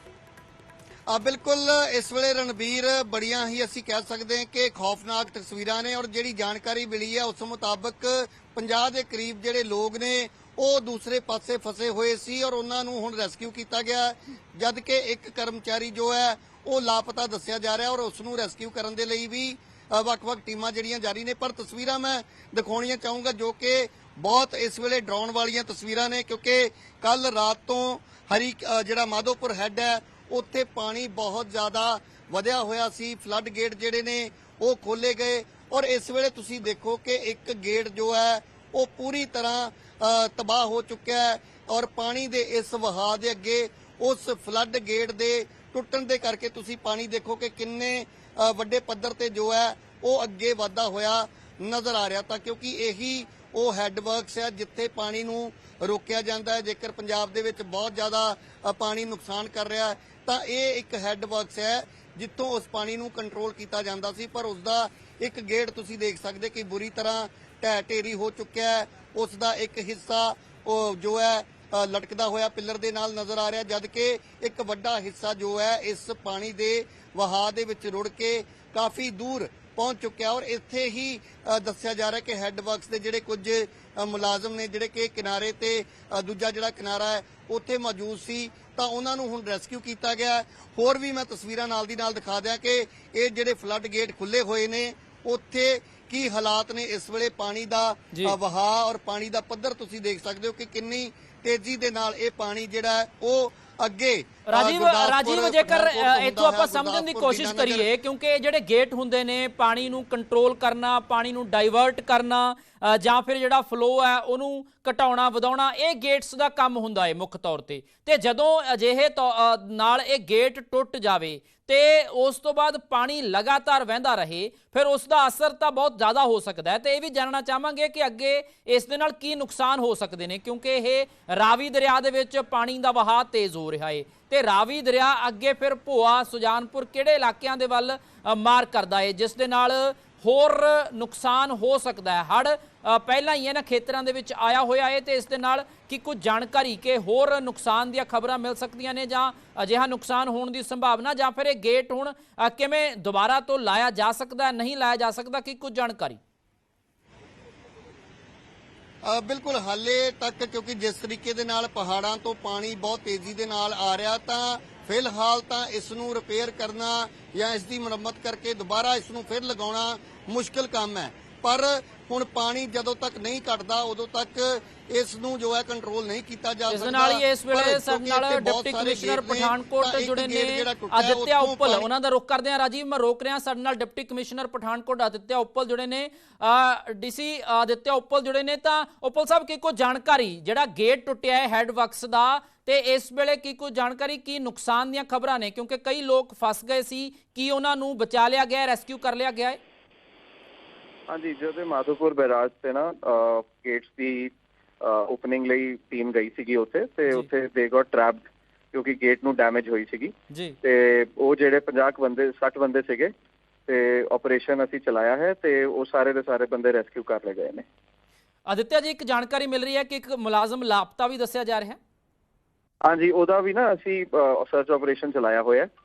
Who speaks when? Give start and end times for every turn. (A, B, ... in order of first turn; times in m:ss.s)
0:01.1-1:47.9 A
1:44.5-2:36.2 B
2:39.0-3:01.9 A
2:56.7-3:19.6 B
3:21.1-3:33.1 C
3:30.3-3:30.6 B
3:33.7-3:37.6 C
3:38.5-3:41.8 B
3:42.8-3:45.7 C